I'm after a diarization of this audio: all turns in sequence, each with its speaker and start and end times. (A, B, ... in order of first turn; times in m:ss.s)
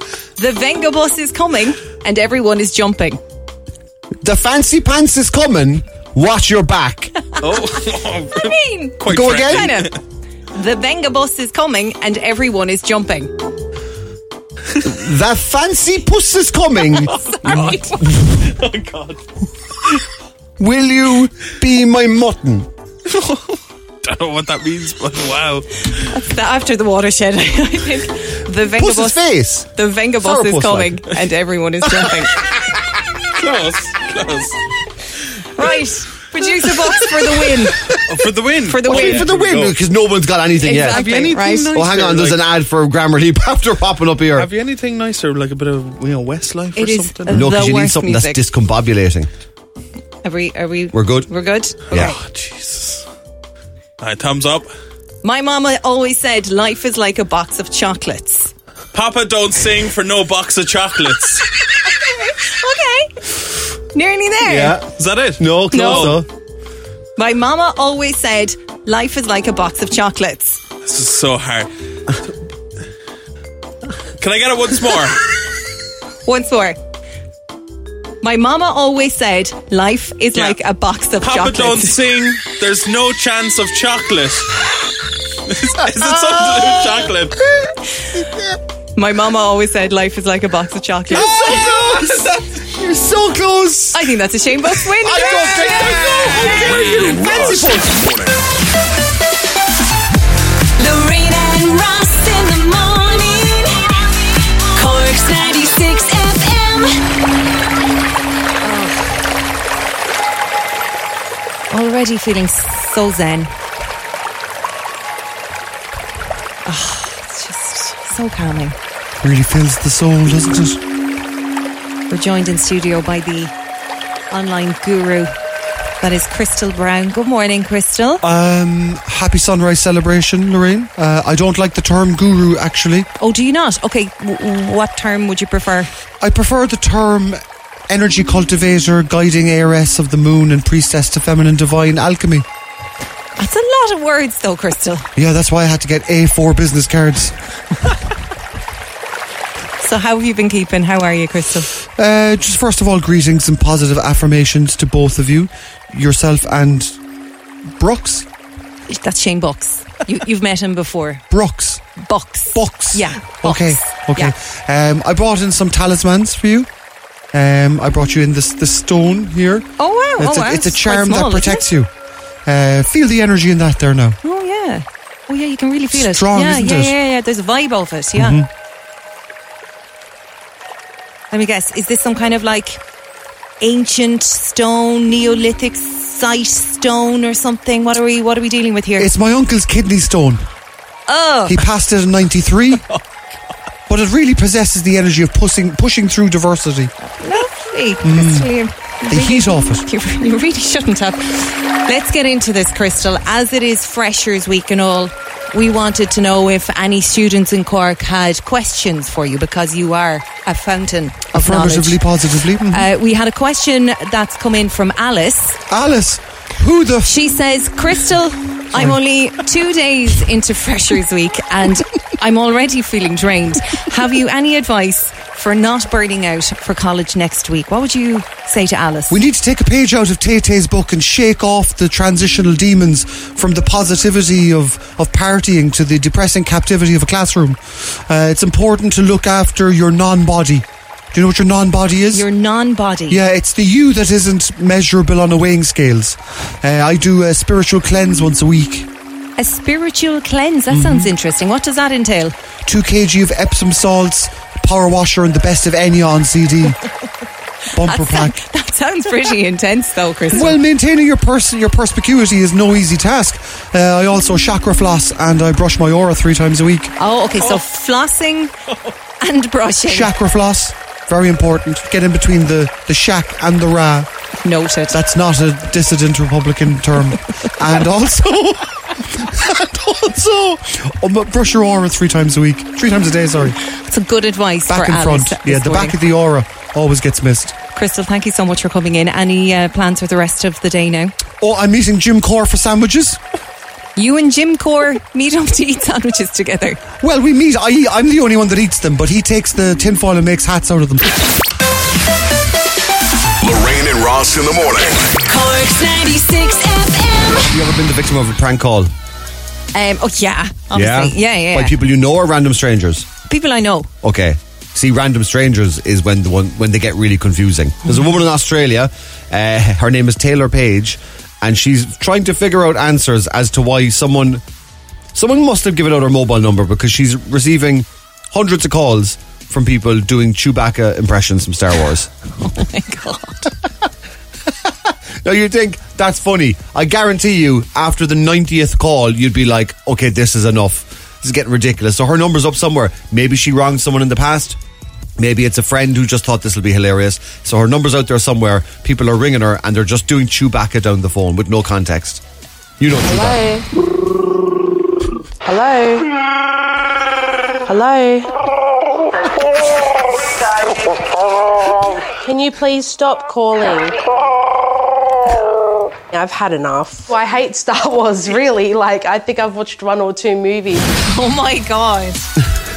0:00.4-0:03.2 A
0:04.2-0:07.1 B
0:07.4-0:10.0 C
0:08.4-0:10.0 A
0:09.1-0:09.8 B
0:10.6-0:13.3 A
0:14.8-0:17.6 B
0:17.2-0:18.0 A
0:17.3-0:19.2 C
0:20.6-0:22.7 B
0:23.1-0:25.8 C
0:26.0-0:32.4 A
0:28.7-0:29.7 B
0:30.2-0:31.0 B
0:33.4-0:34.7 C
0:35.6-0:37.8 A
0:37.9-0:39.8 C
0:38.6-0:39.3 A
0:38.8-0:44.5 B
0:40.6-0:41.7 A
0:40.7-0:42.4 C
0:44.4-0:47.5 C
0:46.8-0:48.4 A
0:47.3-0:49.3 B
0:50.2-0:52.2 A
0:50.9-0:51.3 B
0:51.9-0:52.2 B
0:51.9-0:53.0 C
0:54.0-0:54.7 C
0:55.2-0:58.5 A
0:58.9-1:01.5 C
1:02.0-1:03.2 A
1:03.9-1:04.8 A
1:04.4-1:06.3 B
1:04.9-1:06.2 C
1:05.7-1:06.2 A
1:07.2-1:10.6 A
1:10.8-1:11.7 C
1:14.2-1:15.2 C
1:16.3-1:16.8 A
1:18.2-1:22.0 A
1:21.2-1:24.7 C
1:25.5-1:27.4 C
1:26.0-1:28.5 B
1:29.0-1:31.3 A
1:31.1-1:34.1 B
1:31.2-1:32.4 C
1:33.9-1:36.9 A
1:35.0-1:38.0 B
1:36.4-1:36.8 C
1:36.5-1:38.4 D
1:40.8-1:47.0 E
1:48.6-1:49.2 A
1:51.7-1:53.5 A
1:56.6-1:58.8 A
1:59.2-2:00.8 B
2:02.1-2:03.5 A
2:04.3-2:05.3 A
2:06.0-2:08.2 A
2:08.2-2:13.1 B
2:13.2-2:15.9 A
2:16.2-2:22.5 B
2:23.4-2:25.1 A
2:25.2-2:27.4 B
2:29.8-2:31.7 A
2:31.9-2:37.0 B
2:37.8-2:38.3 B
2:38.9-2:41.2 A
2:41.3-2:41.8 B
2:42.0-2:44.3 A
2:42.5-2:46.7 B
2:47.3-2:51.9 B
2:49.8-2:51.7 A
2:52.5-2:54.2 B
2:54.2-2:58.4 A
2:55.9-2:57.0 B
2:58.2-2:58.5 B
3:01.3-3:02.8 A
3:03.6-3:09.1 A
3:09.0-3:10.5 B
3:11.1-3:11.6 A
3:11.5-3:12.9 B
3:13.9-3:16.9 B
3:17.0-3:32.0 A
3:18.0-3:18.5 B
3:19.1-3:19.9 B
3:31.3-3:32.9 B
3:32.7-3:35.6 A
3:35.7-3:37.1 B
3:37.0-3:49.2 A
3:38.7-3:39.0 B
3:49.1-4:02.3 B
4:02.1-4:03.2 A
4:03.1-4:08.9 B
4:09.4-4:12.4 A
4:10.7-4:11.1 B
4:12.7-4:16.8 B
4:17.7-4:18.4 B
4:17.8-4:20.6 A
4:20.3-4:27.0 B
4:27.0-4:28.5 A
4:29.2-4:30.1 A
4:29.9-4:34.1 B
4:34.4-4:35.0 A
4:34.9-4:43.6 B
4:43.7-4:46.0 A
4:44.7-4:47.6 B
4:47.8-4:51.2 A
4:51.4-4:53.2 B
4:54.0-4:56.8 A
4:57.0-5:01.2 B
5:03.4-5:05.2 D
5:05.3-5:07.5 E
5:07.4-5:08.9 B
5:09.7-5:11.8 A
5:10.7-5:13.1 B
5:13.3-5:13.9 A
5:14.0-5:24.4 B
5:25.2-5:32.1 B
5:32.4-5:33.5 A
5:35.2-5:44.6 B
5:45.2-5:52.2 B
5:52.8-5:53.4 B
5:53.0-5:53.7 F
5:55.4-5:56.2 F
5:57.7-5:58.4 F
6:02.2-6:04.1 F
6:06.1-6:10.9 F
6:11.0-6:12.3 A